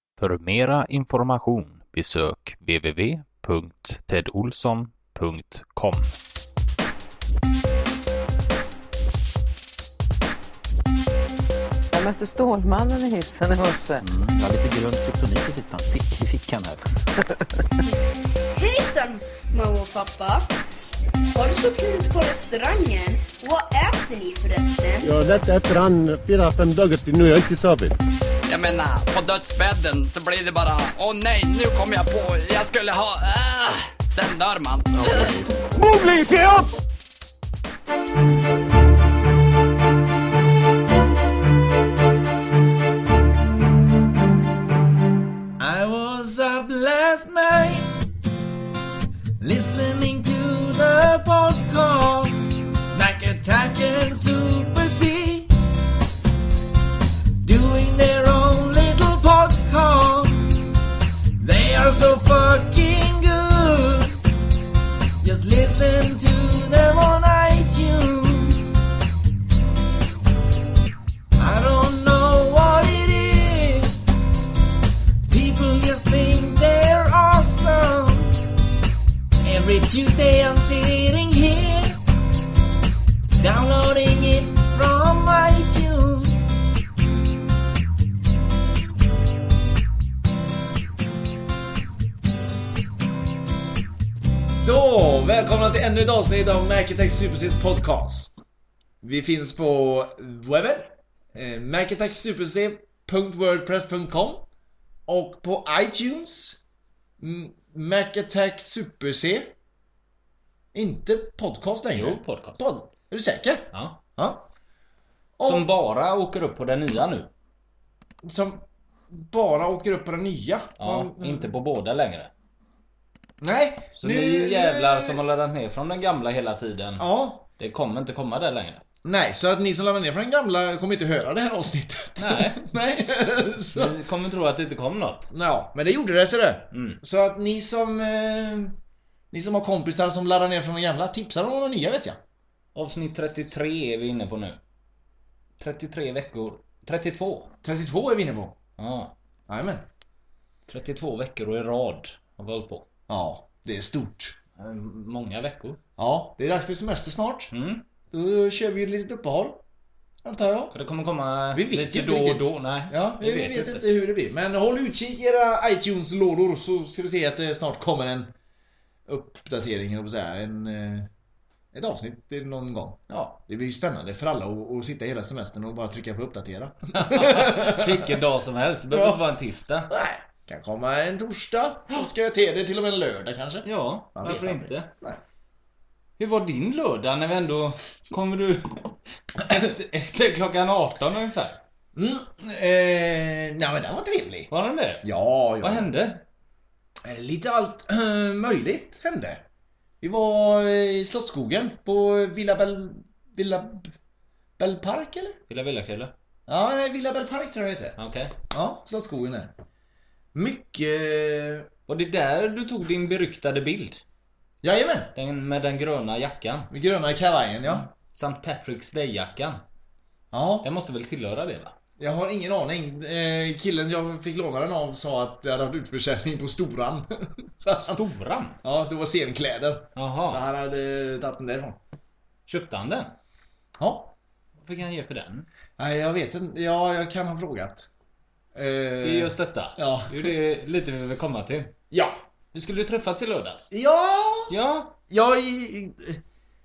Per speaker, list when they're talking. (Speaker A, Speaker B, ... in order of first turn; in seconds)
Speaker A: 0.2-6.1
Speaker B: 11.9-14.0
Speaker C: 14.0-17.6
Speaker D: 18.5-20.5, 21.3-25.1
Speaker E: 25.0-28.0, 35.7-36.6
Speaker F: 28.5-35.4
Speaker G: 45.6-48.0, 49.4-55.5, 57.4-60.6, 61.4-64.2, 65.2-68.8, 71.4-74.1, 75.3-78.4, 79.4-82.0, 83.4-86.5, 94.5-98.3, 99.0-104.5, 105.1-106.6, 107.2-109.5, 110.7-114.5, 115.4-115.7, 118.2-121.5, 123.4-125.2, 127.0-127.4, 129.0-133.9, 135.3-138.8, 139.3-142.2, 147.6-148.6, 149.5-149.8, 153.1-154.4, 156.0-157.5, 158.1-159.6, 160.2-160.7, 161.5-168.3, 169.1-171.1, 171.7-178.2, 178.9-179.3, 179.9-185.2, 191.9-194.5, 195.0-195.9, 197.0-199.4, 200.0-203.9, 204.6-205.4, 206.5-208.0, 208.5-209.5, 210.3-211.7, 214.6-215.1, 216.7-217.8, 220.3-220.7, 222.0-228.0, 228.6-231.8, 233.8-234.1, 235.8-237.9, 238.5-240.3, 241.9-242.2, 243.7-244.5, 245.1-246.2
Speaker H: 111.9-112.6, 113.7-114.0, 115.4-117.3, 120.8-122.3, 123.9-127.0, 127.6-128.8, 132.2-132.7, 133.7-135.3, 136.7-137.0, 142.7-144.6, 145.6-147.5, 148.8-149.1, 150.7-152.8, 154.6-155.8, 157.5-157.8, 160.7-163.8, 173.1-173.4, 176.9-179.9, 183.6-184.9, 186.2-191.6, 194.5-195.1, 195.6-196.2, 205.5-206.1, 208.0-208.3, 211.9-214.0, 215.1-216.7, 217.7-219.6, 220.6-221.7, 227.8-228.6, 229.9-230.4, 232.5-233.2, 234.6-235.5, 239.0-241.7, 242.5-243.7, 244.5-244.9